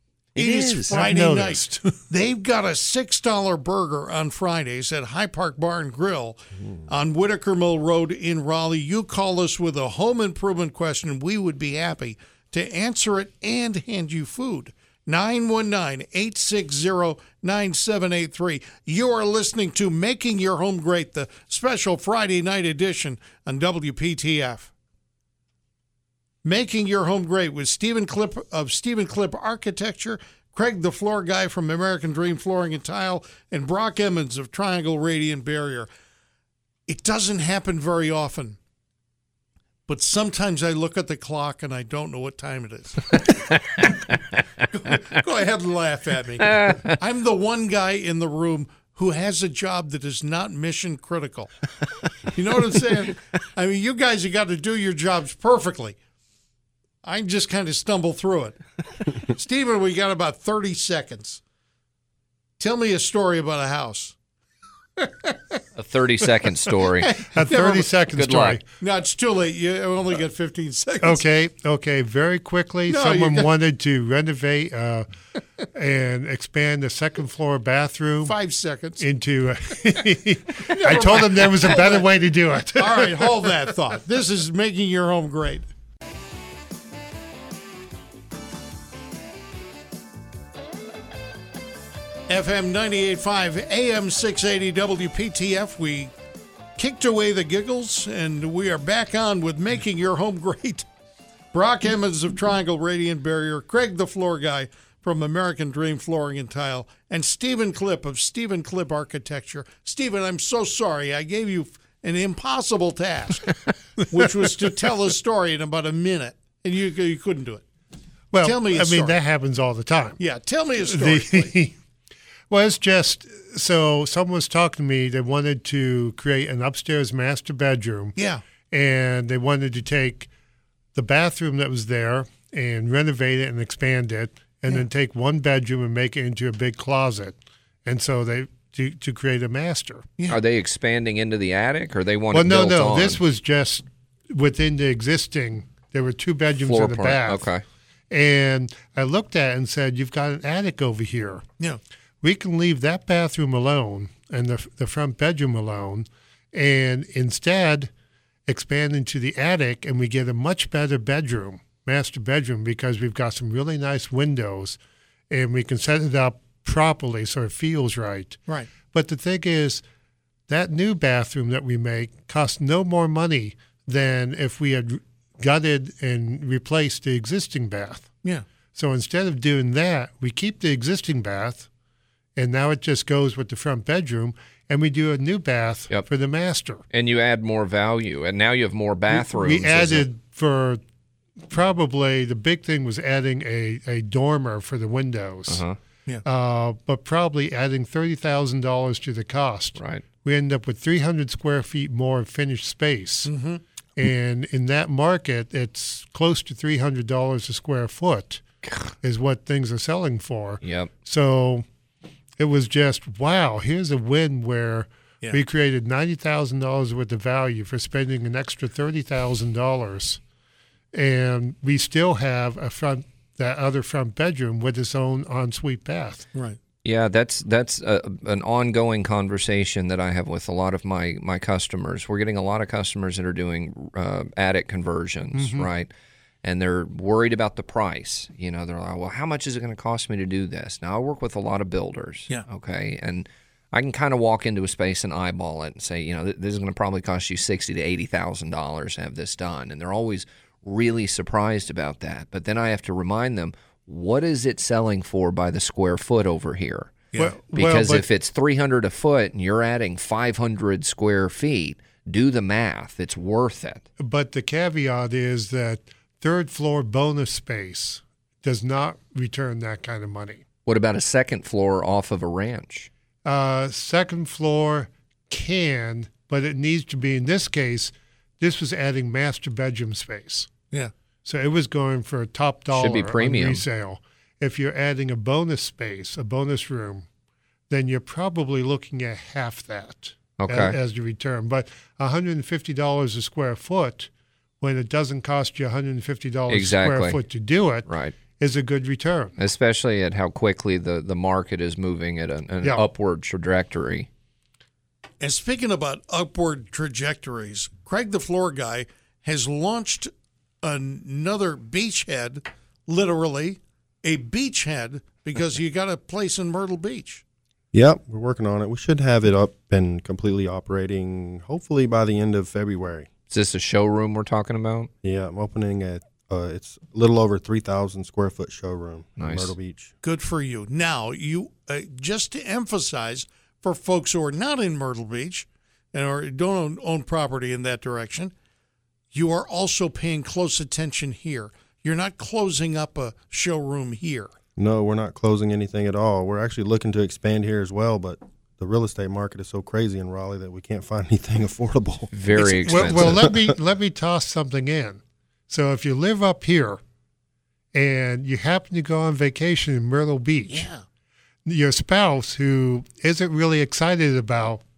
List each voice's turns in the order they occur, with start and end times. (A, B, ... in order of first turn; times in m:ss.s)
0:00.3-0:01.1 A
0:00.4-0:24.7 B
0:00.9-0:01.9 C
0:26.4-0:35.9 B
0:36.9-0:38.6 B
0:39.9-0:43.3 B
0:43.3-0:44.2 A
0:44.7-0:51.5 B
0:46.4-0:47.0 A
0:52.3-0:56.0 B
0:57.0-0:58.6 B
0:59.1-1:01.4 B
1:02.6-1:04.1 B
1:05.7-1:07.2 A
1:07.0-1:07.9 B
1:07.3-1:08.6 C
1:08.1-1:08.6 A
1:08.8-1:11.2 B
1:11.0-1:15.1 C
1:12.9-1:13.5 B
1:15.6-1:18.3 C
1:18.2-1:19.0 B
1:19.0-1:23.7 C
1:20.6-1:22.1 B
1:22.7-1:25.6 B
1:32.3-1:36.1 B
1:36.8-1:40.8 B
1:41.5-1:57.6 B
1:58.3-2:00.2 C
1:58.4-1:59.2 B
2:00.2-2:01.5 B
2:00.9-2:01.7 C
2:02.5-2:08.1 C
2:08.2-2:08.4 B
2:08.7-2:10.3 C
2:10.9-2:20.1 C
2:20.3-2:23.2 A
2:22.3-2:27.4 C
2:26.6-2:27.6 A
2:28.1-2:31.4 C
2:32.2-2:37.9 C
2:38.5-2:44.8 C
2:45.3-2:48.4 C
2:48.9-2:49.8 C
2:50.5-2:58.1 C
2:58.7-3:01.7 C
3:02.4-3:06.8 C
3:06.9-3:10.1 A
3:09.1-3:10.8 C
3:11.5-3:15.6 C
3:15.5-3:15.8 A
3:16.2-3:23.3 C
3:19.8-3:20.0 A
3:23.2-3:23.6 B
3:24.0-3:28.4 C
3:29.0-3:31.6 C
3:30.6-3:30.9 A
3:32.4-3:40.2 C
3:40.9-3:46.2 C
3:46.8-3:55.9 A
3:55.3-3:55.7 C
3:56.4-4:16.9 A
4:17.2-4:18.0 C
4:17.5-4:23.8 A
4:24.0-4:30.4 C
4:30.6-4:32.9 A
4:33.2-4:40.5 C
4:41.2-4:47.0 C
4:42.7-4:43.6 A
4:47.7-4:54.1 C
4:50.4-4:50.8 A
4:54.6-4:59.3 C
4:56.5-4:57.2 A
4:57.8-4:58.1 A
4:59.4-5:04.1 A
5:05.2-5:10.1 B
5:10.6-5:17.2 B
5:17.7-5:23.1 D
5:23.3-5:24.9 A
5:25.0-5:29.9 D
5:29.2-5:29.5 A
5:30.0-5:38.3 B
5:39.1-5:44.3 B
5:44.6-5:52.1 D
5:52.1-5:53.3 A
5:52.4-5:56.8 C
5:52.8-5:53.6 D
5:57.7-6:00.7 C
6:00.5-6:00.8 B
6:01.4-6:04.6 C